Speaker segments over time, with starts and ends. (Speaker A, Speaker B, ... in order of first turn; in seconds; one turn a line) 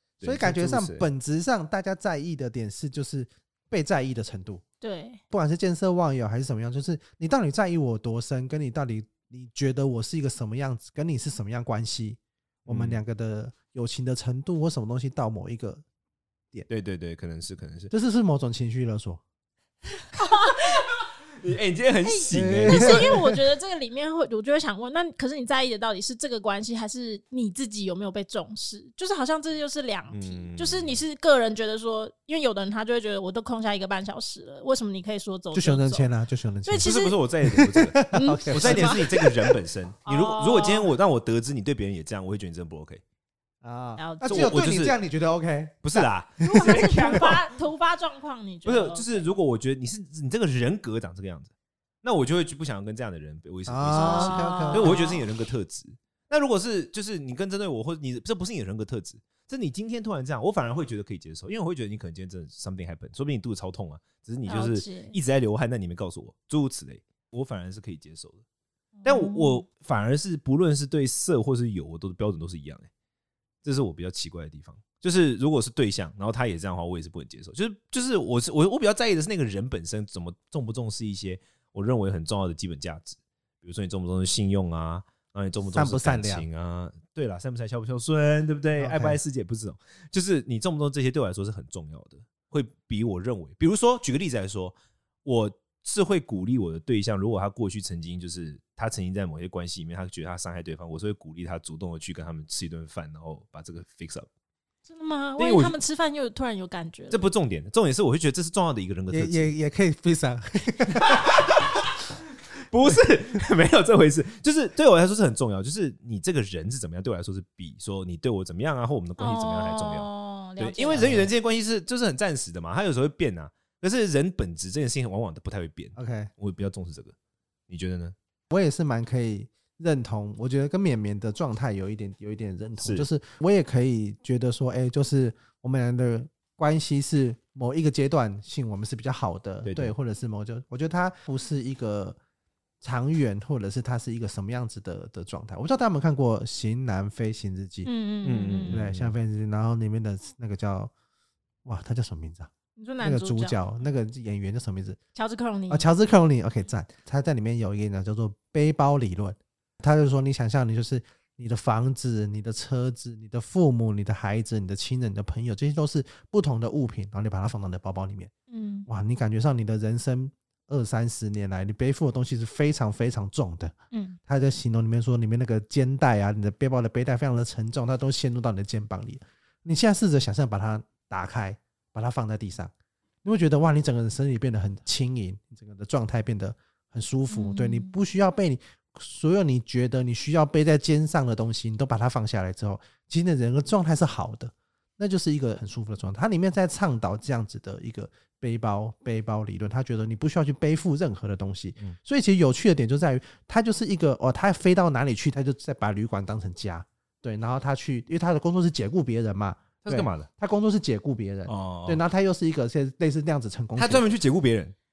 Speaker A: 0.2-1.1
Speaker B: 0.2-4.6
Speaker C: 4.8-5.2
Speaker B: 5.3-15.8
Speaker A: 12.7-13.0
Speaker A: 16.7-17.9
Speaker B: 17.9-19.2
Speaker C: 20.1-20.8
Speaker A: 20.2-20.8
Speaker A: 21.4-23.2
Speaker C: 22.1-36.1
Speaker B: 22.3-23.4
Speaker A: 30.1-31.0
Speaker B: 35.5-36.9
Speaker C: 36.6-37.2
Speaker A: 36.8-43.0
Speaker B: 37.4-39.3
Speaker C: 38.1-39.1
Speaker C: 40.0-40.9
Speaker B: 43.6-47.3
Speaker C: 44.0-44.5
Speaker A: 44.2-45.0
Speaker A: 45.8-47.5
Speaker C: 46.4-49.2
Speaker A: 48.6-51.5
Speaker A: 52.0-68.4
Speaker B: 53.7-55.0
Speaker C: 53.9-55.2
Speaker C: 64.5-65.1
Speaker C: 69.0-69.6
Speaker A: 69.0-72.9
Speaker A: 73.6-104.3
Speaker B: 85.7-86.5
Speaker B: 88.8-89.2
Speaker C: 104.9-107.2
Speaker A: 105.4-105.8
Speaker A: 107.1-109.5
Speaker B: 109.1-111.3
Speaker A: 111.0-111.8
Speaker A: 112.7-120.1
Speaker C: 119.2-121.1
Speaker A: 120.6-127.1
Speaker B: 121.0-121.3
Speaker B: 126.0-126.3
Speaker A: 127.7-128.1
Speaker B: 128.5-142.2
Speaker A: 132.8-133.1
Speaker A: 139.6-139.9
Speaker B: 142.8-147.9
Speaker C: 147.8-148.8
Speaker A: 148.2-149.1
Speaker B: 148.7-150.9
Speaker B: 151.6-152.5
Speaker C: 152.8-153.6
Speaker B: 153.0-155.0
Speaker C: 155.1-155.9
Speaker B: 155.7-168.3
Speaker C: 168.5-168.9
Speaker B: 168.9-173.7
Speaker C: 173.9-174.2
Speaker B: 174.3-182.7
Speaker B: 183.2-214.1
Speaker C: 187.3-187.9
Speaker A: 209.8-210.3
Speaker A: 211.5-212.0
Speaker A: 213.8-214.7